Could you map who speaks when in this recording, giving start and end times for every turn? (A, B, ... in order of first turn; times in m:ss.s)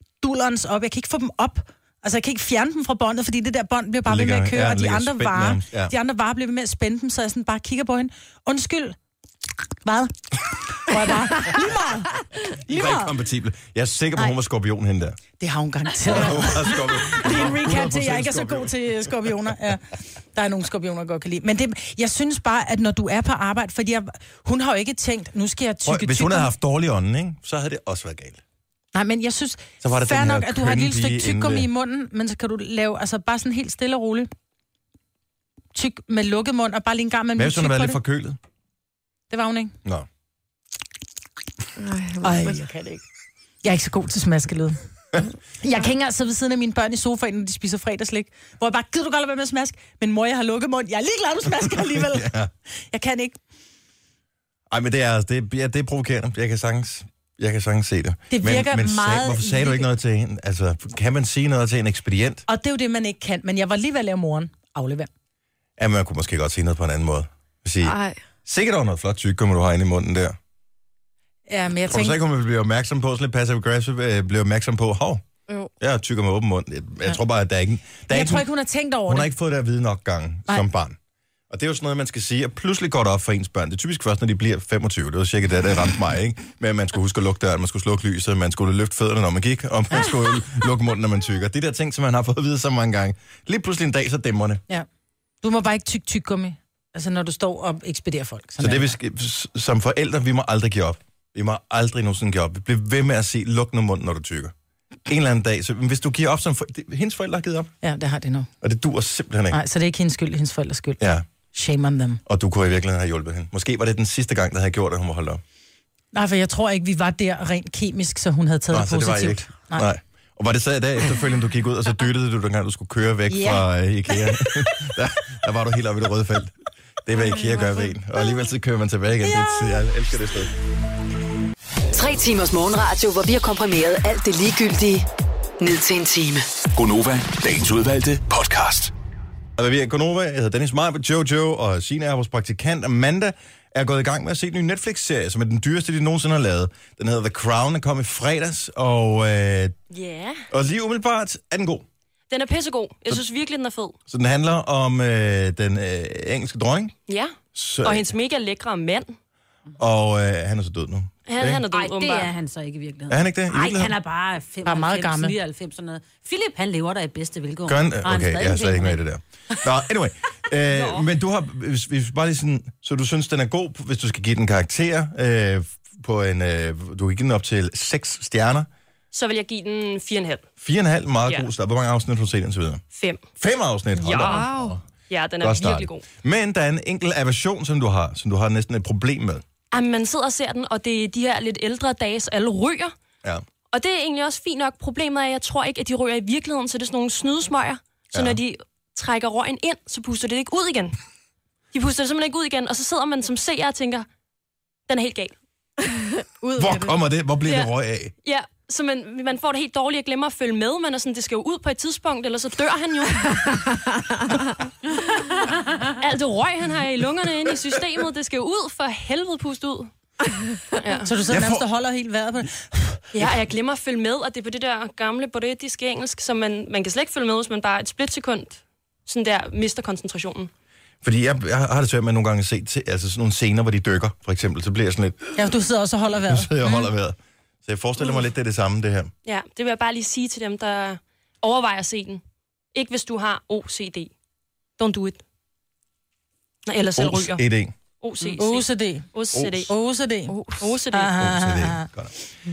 0:00.2-0:09.0 A
0:04.0-0:05.9 B
0:09.8-0:10.1 A
0:10.7-0:13.1 A
0:12.6-0:15.2 B
0:15.4-0:26.5 A
0:16.0-0:19.3 B
0:25.8-0:28.4 B
0:28.9-0:34.3 A
0:29.8-0:31.7 B
0:35.7-0:38.0 A
0:37.4-0:38.4 B
0:39.3-0:39.7 A
0:41.8-0:42.6 C
0:42.2-0:43.0 A
0:43.6-0:44.8 A
0:45.6-0:52.3 A
0:51.6-0:52.5 B
0:52.9-0:53.4 A
0:54.7-1:02.4 B
0:58.3-0:59.9 A
1:02.5-1:05.1 A
1:05.8-1:10.4 B
1:07.8-1:08.2 C
1:11.5-1:12.2 A
1:11.9-1:15.2 B
1:15.8-1:18.5 B
1:18.1-1:19.3 A
1:19.1-1:21.0 B
1:21.5-1:34.6 B
1:35.4-1:39.0 A
1:38.6-1:44.5 B
1:45.1-1:47.7 B
1:47.8-1:48.5 A
1:48.6-1:49.6 B
1:49.5-1:51.0 A
1:51.0-1:51.3 B
1:51.5-1:52.2 A
1:52.2-1:55.4 B
1:56.1-1:59.9 A
1:58.7-2:10.5 B
2:03.3-2:04.6 A
2:07.2-2:07.8 C
2:09.2-2:09.8 A
2:11.9-2:15.1 D
2:15.6-2:16.4 D
2:16.7-2:18.9 E
2:19.6-2:29.7 B
2:29.9-2:30.5 F
2:30.5-2:31.8 B
2:32.3-2:34.0 F
2:34.1-2:36.9 B
2:37.1-2:39.1 F
2:37.5-2:38.1 B
2:39.8-2:41.6 B
2:41.3-2:42.3 F
2:41.7-2:49.0 G
2:43.1-2:43.9 B
2:44.6-2:45.3 A
2:47.6-2:58.7 B
2:50.7-2:51.1 F
2:59.1-3:00.4 F
3:00.6-3:02.8 B
3:02.9-3:03.2 F
3:03.4-3:04.8 B
3:04.0-3:04.5 F
3:04.2-3:04.8 C
3:05.1-3:06.0 F
3:05.4-3:09.4 B
3:09.7-3:12.9 F
3:13.7-3:21.0 F
3:18.1-3:18.4 B
3:21.7-3:24.1 F
3:24.9-3:25.3 F
3:25.8-3:26.9 C
3:26.6-3:28.1 B
3:28.2-3:33.6 F
3:33.4-3:34.4 C
3:35.9-3:39.9 F
3:40.7-3:41.1 F
3:41.0-3:43.0 A
3:41.3-3:41.6 B
3:43.1-3:50.5 F
3:51.0-3:55.4 B
3:55.4-3:56.9 A
3:56.2-3:59.1 B
3:59.2-4:02.2 F
4:02.7-4:04.1 F
4:04.8-4:05.2 F
4:06.6-4:07.4 F
4:07.0-4:07.7 B
4:08.0-4:09.7 F
4:08.4-4:09.0 A
4:09.3-4:09.7 B
4:09.7-4:11.9 A
4:10.3-4:10.6 C
4:10.6-4:11.2 F
4:11.1-4:12.1 B